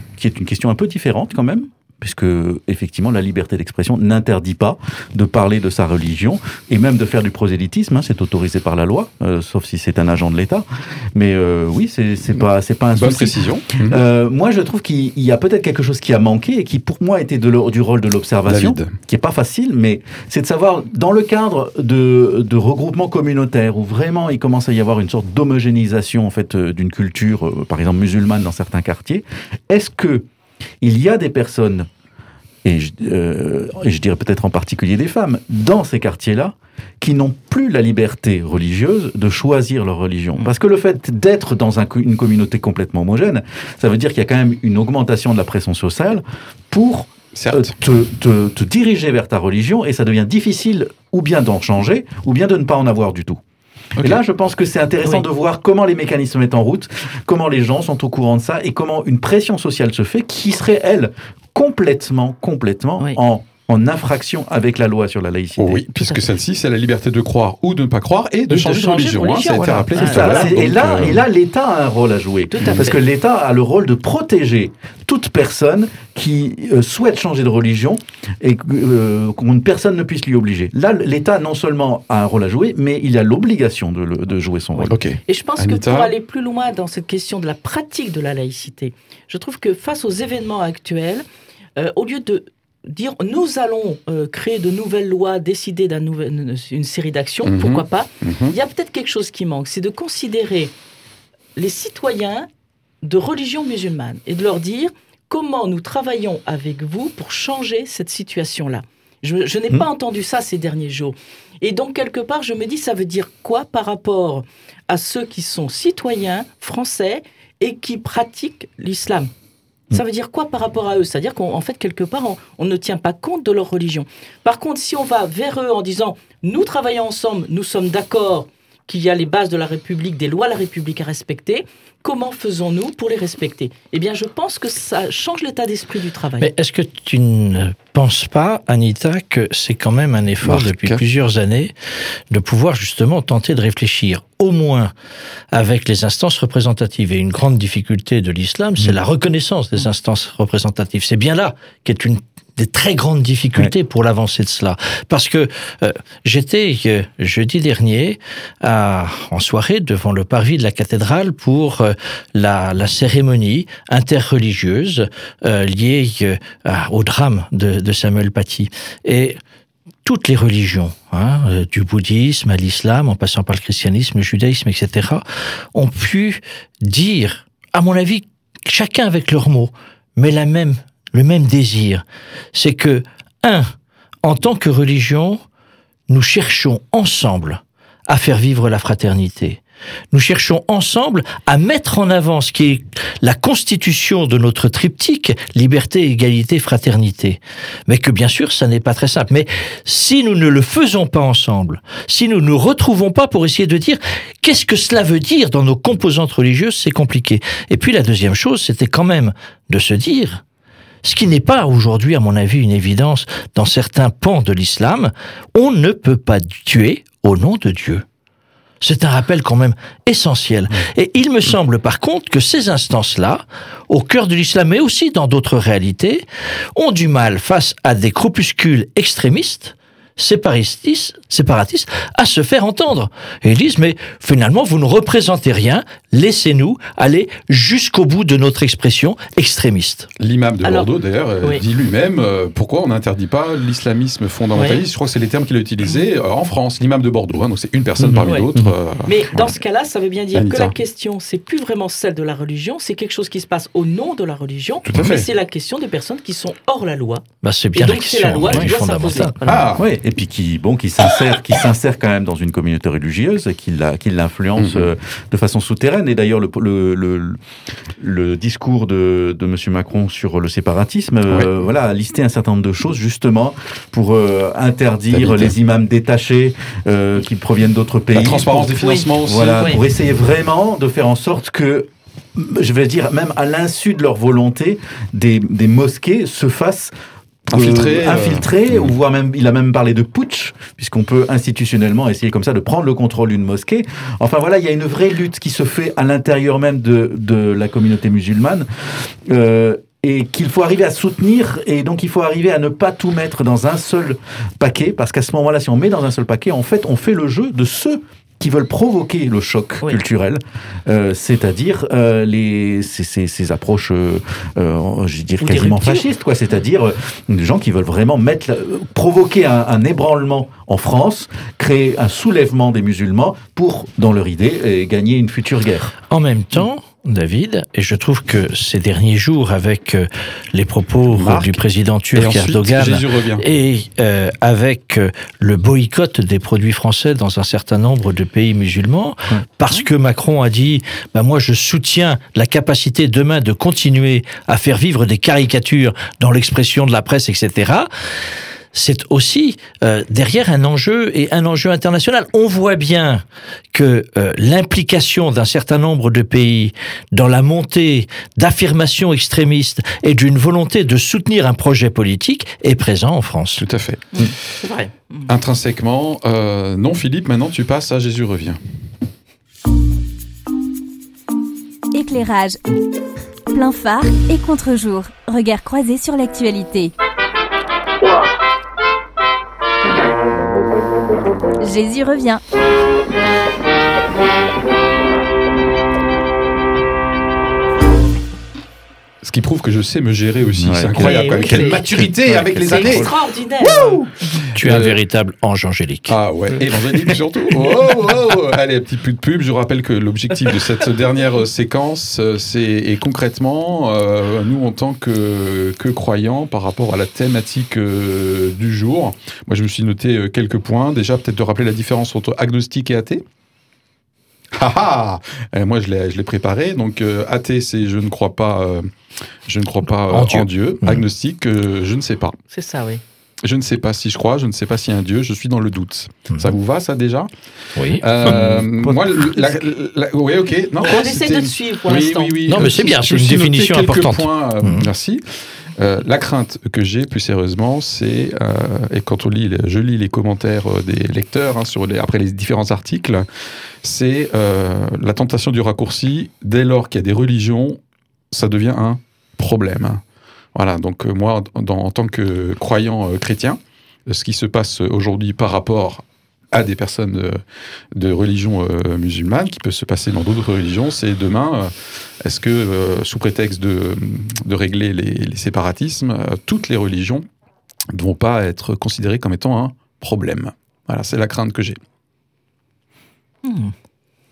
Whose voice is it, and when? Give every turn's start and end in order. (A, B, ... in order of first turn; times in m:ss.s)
0:00.2-0:30.3 A
0:13.0-0:14.0 B
0:18.5-0:19.0 B
0:30.8-0:31.9 A
0:32.6-0:53.4 A
0:47.3-0:47.7 B
0:54.0-1:05.8 A
1:05.6-1:11.2 B
1:08.5-1:10.6 C
1:09.8-1:24.9 A
1:12.5-1:13.0 C
1:12.6-1:12.9 B
1:24.9-1:26.1 B
1:25.3-1:31.2 C
1:31.8-1:40.7 C
1:37.4-1:38.6 B
1:41.6-1:42.5 C
1:43.0-1:59.3 C
1:59.9-2:16.5 C
2:16.4-2:21.7 D
2:20.4-2:21.0 B
2:22.3-2:24.9 D
2:25.5-2:49.4 D
2:50.0-3:05.4 D
3:06.1-3:09.6 D
3:10.1-3:30.4 D
3:31.0-3:38.0 D
3:38.8-4:00.1 D
4:00.2-4:09.6 B
4:04.6-4:04.8 C
4:08.0-4:08.7 A
4:08.2-4:08.5 C
4:09.0-4:19.8 C
4:10.3-4:10.7 B
4:14.8-4:15.3 B
4:17.4-4:19.4 D
4:19.4-4:19.8 B
4:19.8-4:27.4 A
4:24.6-4:24.9 B
4:28.0-4:46.9 A
4:35.1-4:35.5 B
4:38.1-4:39.7 B
4:38.8-4:39.8 C
4:47.5-5:25.9 A
4:47.5-4:48.9 B
5:15.4-5:16.0 D
5:26.1-5:47.9 D
5:31.1-5:31.6 B
5:32.1-5:33.4 B
5:48.7-6:03.6 D
6:03.6-6:04.2 B
6:04.1-6:05.3 C
6:05.3-6:08.6 B
6:11.9-6:12.6 E
6:13.5-6:16.9 E
6:21.6-6:22.4 E
6:29.2-6:33.1 B
6:30.6-6:33.1 A
6:30.9-6:32.0 C
6:32.6-6:34.4 C
6:33.6-6:33.9 B
6:34.5-6:36.2 D
6:34.6-6:35.0 B
6:36.1-6:53.2 B
6:54.5-6:58.9 B
6:59.4-7:02.4 B
7:00.1-7:01.0 D
7:02.5-7:03.0 C
7:03.4-7:07.3 B
7:07.8-7:08.6 D
7:08.0-7:15.2 B
7:08.2-7:09.4 A
7:10.8-7:12.4 C
7:12.4-7:14.9 D
7:15.8-7:23.2 B
7:23.8-7:27.8 B
7:28.3-7:30.0 B
7:30.5-7:37.4 B
7:37.9-7:41.7 B
7:42.2-7:47.2 B
7:47.9-7:51.8 B
7:53.4-7:53.7 C